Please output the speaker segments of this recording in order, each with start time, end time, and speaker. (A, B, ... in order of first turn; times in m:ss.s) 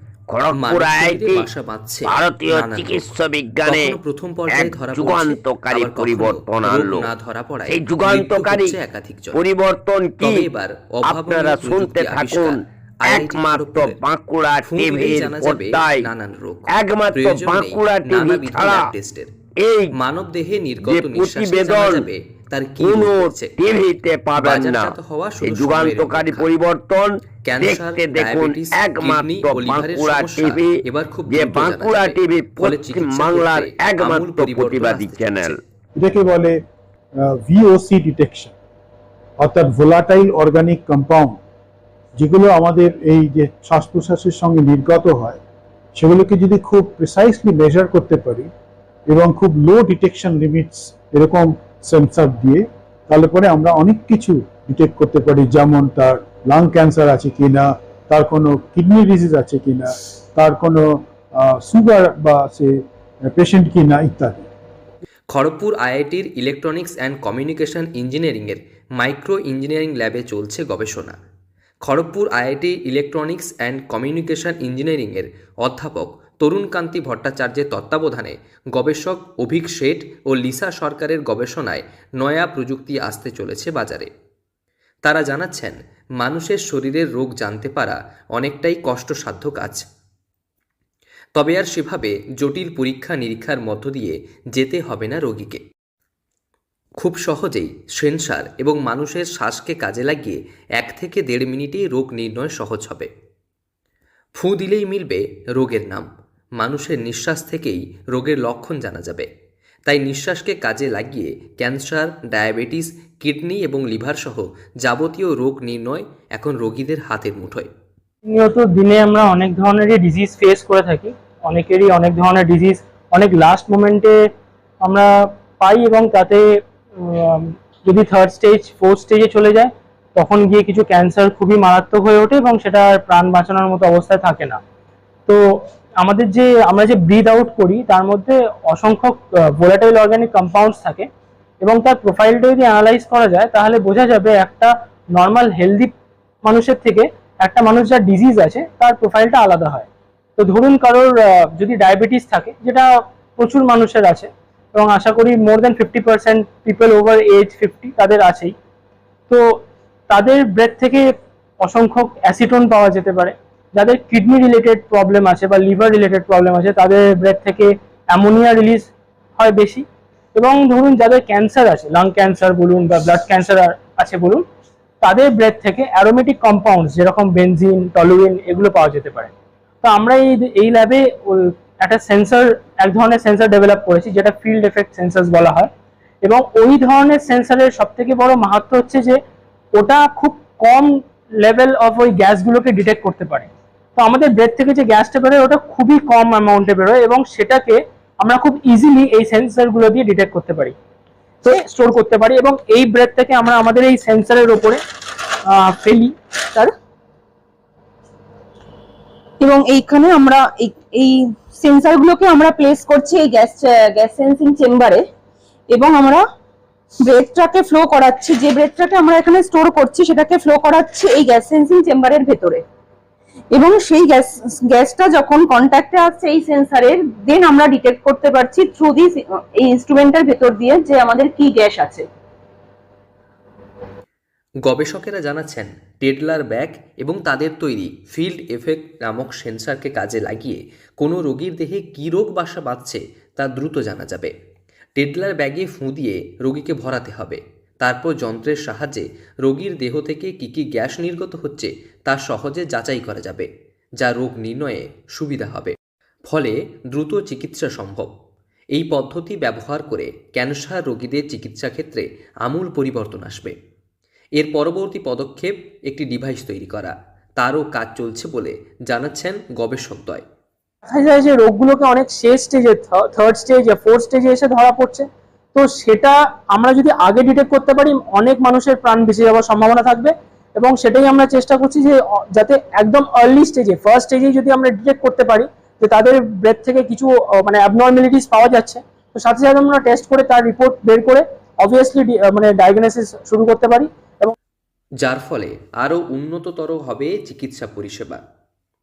0:00.3-0:01.5 A
0:00.5-0:03.0 B
0:02.1-0:03.8 A
0:03.6-0:09.4 B
0:04.5-0:07.0 A
0:07.7-0:08.7 A
0:09.3-0:10.5 A
0:10.2-0:14.0 B
0:11.0-0:12.6 A
0:13.1-0:16.0 A
0:14.6-0:19.3 B
0:16.7-0:18.8 A
0:19.6-0:19.9 A
0:20.0-0:23.6 B
0:20.8-0:22.0 A
0:22.8-0:30.7 A
0:24.4-0:26.5 B
0:27.4-0:35.6 B
0:31.3-0:35.5 A
0:36.0-0:36.6 C
0:37.2-0:38.5 C
0:39.4-0:41.4 C
0:42.2-0:45.4 C
0:46.0-0:48.5 C
0:49.1-1:04.4 C
1:05.3-1:11.2 B
1:11.8-1:24.1 B
1:25.0-1:29.8 B
1:31.3-1:35.6 B
1:37.0-1:43.1 B
1:44.4-1:46.0 B
1:46.6-1:49.2 B
1:49.8-1:57.7 B
1:58.2-2:04.2 D
2:04.8-2:14.6 D
2:15.3-2:21.1 D
2:21.6-2:25.9 D
2:26.4-2:32.8 D
2:33.4-2:38.5 D
2:39.3-2:39.6 D
2:40.1-2:54.4 D
2:55.0-3:05.7 D
3:06.2-3:09.2 D
3:09.7-3:20.8 D
3:21.4-3:24.8 D
3:25.5-3:26.1 D
3:29.4-3:35.0 E
3:35.7-3:36.2 E
3:37.0-3:42.6 E
3:43.5-3:52.0 E
3:54.6-4:04.3 B
4:05.0-4:13.5 B
4:14.0-4:15.7 B
4:16.2-4:18.1 B
4:18.7-4:23.5 B
4:24.4-4:30.2 B
4:30.9-4:54.3 D
4:55.0-4:58.2 B